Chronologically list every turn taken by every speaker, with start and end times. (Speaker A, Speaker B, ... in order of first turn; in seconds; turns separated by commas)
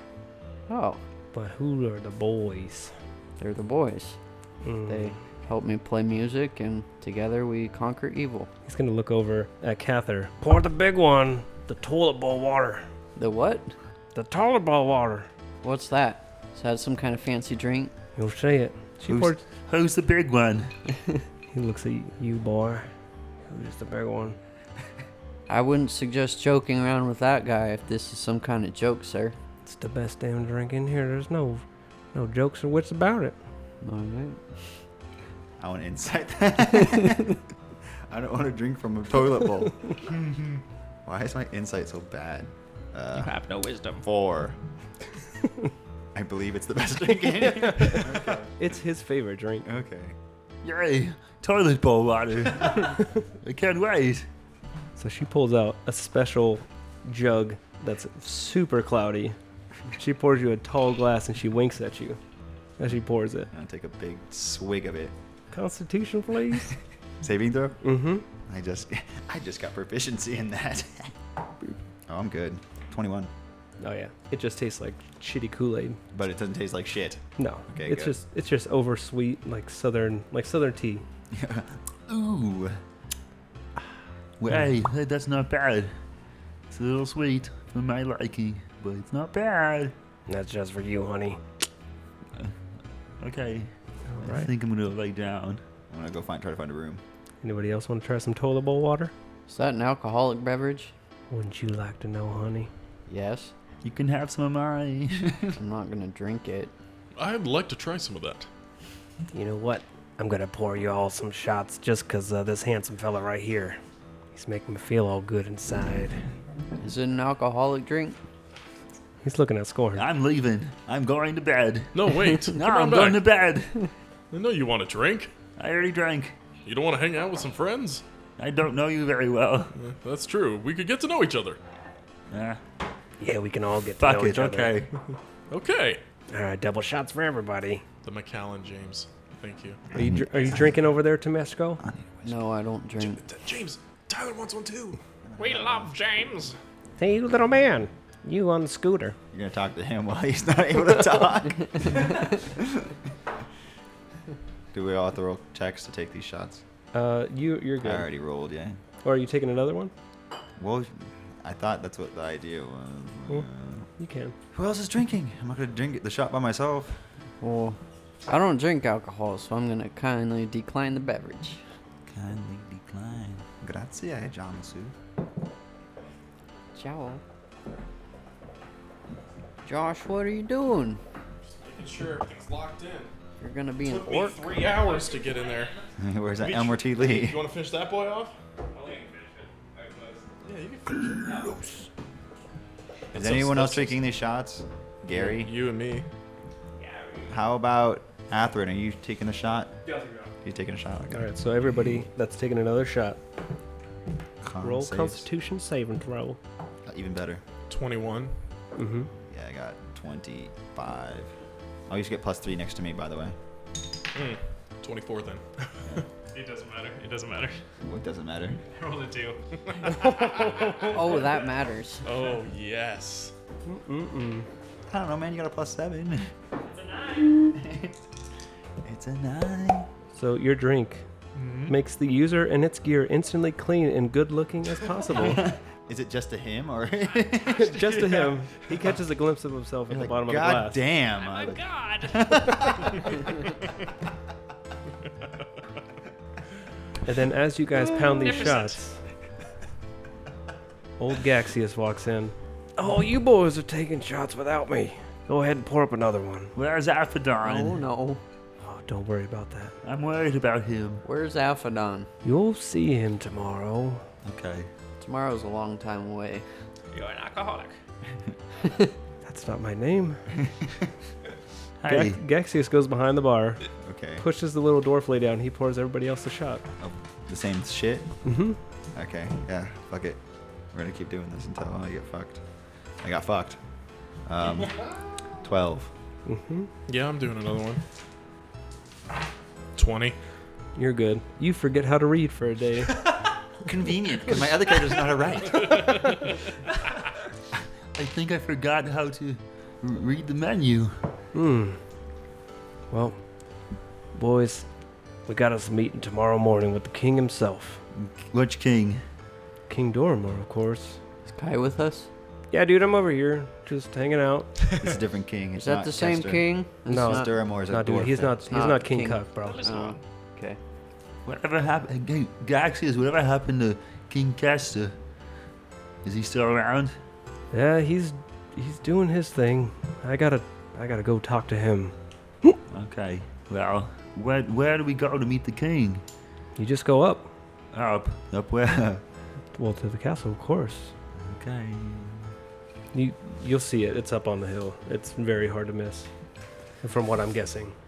Speaker A: 0.7-1.0, Speaker B: 1.3-2.9, Speaker A: 3.4-4.2, Speaker B: 4.6-5.2, Speaker A: 4.9-8.5, Speaker B: 8.7-12.8, Speaker A: 13.2-13.7, Speaker B: 14.1-15.3, Speaker A: 15.6-17.9, Speaker B: 18.1-19.4, Speaker C: 19.1-20.7, Speaker B: 21.5-22.9, Speaker B: 23.5-24.4, Speaker A: 25.5-29.3, Speaker B: 29.6-33.4, Speaker A: 33.8-34.8, Speaker D: 35.6-37.4, Speaker D: 38.1-40.2, Speaker D: 41.0-43.4, Speaker E: 43.1-44.0, Speaker D: 44.0-44.6, Speaker D: 46.1-48.5, Speaker B: 48.6-49.6, Speaker D: 49.6-50.1, Speaker C: 50.6-54.3, Speaker B: 55.0-59.4, Speaker B: 59.9-62.2, Speaker B: 62.8-63.5, Speaker D: 63.5-65.1, Speaker B: 65.5-66.7, Speaker D: 67.2-67.8, Speaker B: 67.8-68.2, Speaker D: 68.5-71.1, Speaker D: 72.1-73.3, Speaker B: 73.8-76.0, Speaker D: 76.1-78.1, Speaker B: 77.4-81.0, Speaker D: 81.3-82.7, Speaker C: 84.4-85.9, Speaker C: 86.7-89.9, Speaker B: 90.3-91.4, Speaker C: 93.2-95.6, Speaker B: 94.1-94.5, Speaker D: 95.9-97.0, Speaker B: 97.4-99.1, Speaker A: 99.5-100.9, Speaker B: 101.3-102.7, Speaker A: 103.1-103.5, Speaker C: 103.8-105.6, Speaker A: 105.6-106.7, Speaker F: 107.2-108.5, Speaker B: 109.3-113.8, Speaker B: 114.3-116.2, Speaker A: 116.8-118.2, Speaker B: 119.2-120.0, Speaker C: 119.9-123.8, Speaker F: 121.9-123.2, Speaker F: 124.3-125.3, Speaker C: 125.6-126.3, Speaker F: 126.6-128.0, Speaker C: 128.4-129.7, Speaker F: 129.7-131.6, Speaker C: 132.3-132.6, Speaker B: 133.2-134.7, Speaker C: 134.0-134.9, Speaker F: 135.5-136.0, Speaker B: 136.3-137.8, Speaker F: 138.0-139.8, Speaker D: 139.9-140.8, Speaker B: 139.9-141.8, Speaker D: 141.8-142.5, Speaker A: 142.2-143.2, Speaker F: 143.0-145.0, Speaker D: 145.2-145.9, Speaker E: 145.4-146.5, Speaker B: 147.0-149.2, Speaker D: 149.3-152.9, Speaker D: 154.7-156.6, Speaker B: 156.9-158.1, Speaker D: 157.8-158.8, Speaker B: 159.0-159.9, Speaker D: 160.6-163.9, Speaker B: 164.0-164.3, Speaker D: 164.5-167.0, Speaker A: 167.4-171.6, Speaker C: 172.1-173.4, Speaker D: 173.6-174.9, Speaker A: 176.7-177.2, Speaker A: 179.6-181.0, Speaker F: 181.4-183.1, Speaker A: 183.4-184.5, Speaker F: 183.8-185.7, Speaker E: 184.6-185.9, Speaker D: 186.0-187.4, Speaker F: 186.4-188.3, Speaker E: 188.7-190.3, Speaker F: 190.4-191.6, Speaker E: 191.2-191.7, Speaker F: 193.1-194.0, Speaker D: 193.1-195.5, Speaker F: 195.1-196.1, Speaker E: 196.8-197.3, Speaker D: 197.3-199.8, Speaker E: 199.8-200.3, Speaker D: 200.4-201.3, Speaker B: 201.1-203.2, Speaker D: 204.4-205.2, Speaker B: 204.6-206.4, Speaker D: 206.8-207.4, Speaker F: 207.7-208.3, Speaker B: 208.8-209.1, Speaker D: 209.3-211.3, Speaker D: 211.9-213.3, Speaker F: 214.1-215.4, Speaker E: 216.3-217.6, Speaker D: 217.8-218.6, Speaker E: 218.7-219.4, Speaker F: 219.8-220.6, Speaker E: 220.2-221.3, Speaker A: 220.9-222.0, Speaker F: 222.0-223.3, Speaker B: 223.7-224.5, Speaker D: 224.9-226.3, Speaker E: 226.7-227.3, Speaker D: 227.3-227.9, Speaker D: 228.8-229.8, Speaker B: 230.1-231.0, Speaker E: 231.4-231.7, Speaker B: 231.7-235.4, Speaker D: 235.2-237.9, Speaker B: 237.4-240.8, Speaker D: 239.9-243.3, Speaker E: 241.1-242.6, Speaker B: 247.0-249.0, Speaker E: 247.8-248.8, Speaker B: 251.0-256.5, Speaker C: 256.5-257.8, Speaker A: 257.4-258.2, Speaker B: 258.6-259.7, Speaker C: 259.8-261.0, Speaker A: 261.0-262.1, Speaker B: 262.2-264.0, Speaker C: 264.2-264.7, Speaker A: 265.0-266.4, Speaker E: 266.9-267.7, Speaker B: 269.2-270.3, Speaker C: 271.8-272.2, Speaker B: 271.9-273.6, Speaker D: 273.8-274.2, Speaker B: 274.2-276.6, Speaker D: 276.8-278.2, Speaker B: 278.2-278.6, Speaker D: 278.9-282.4, Speaker D: 283.0-283.6, Speaker D: 284.2-284.9, Speaker D: 285.4-285.9, Speaker B: 286.2-286.7, Speaker F: 286.9-287.8, Speaker F: 289.8-290.1, Speaker B: 290.8-293.0, Speaker D: 293.6-296.0, Speaker C: 293.8-294.3, Speaker F: 295.7-296.1, Speaker C: 297.9-301.0, Speaker B: 301.3-301.8, Speaker B: 302.9-303.2, Speaker B: 304.1-304.7, Speaker B: 305.3-307.8, Speaker C: 307.9-309.0, Speaker B: 309.7-311.0, Speaker A: 311.3-312.1, Speaker B: 312.5-314.5, Speaker D: 314.8-316.5, Speaker A: 315.6-317.3, Speaker B: 316.9-319.7, Speaker D: 317.0-318.4, Speaker A: 318.4-320.6, Speaker E: 319.4-320.0, Speaker C: 321.2-324.9, Speaker C: 326.0-326.9, Speaker B: 327.5-332.6, Speaker C: 332.7-336.0, Speaker B: 336.6-337.3, Speaker C: 337.7-339.0, Speaker B: 339.5-340.9, Speaker C: 341.1-342.3, Speaker B: 342.9-346.1, Speaker B: 346.8-347.7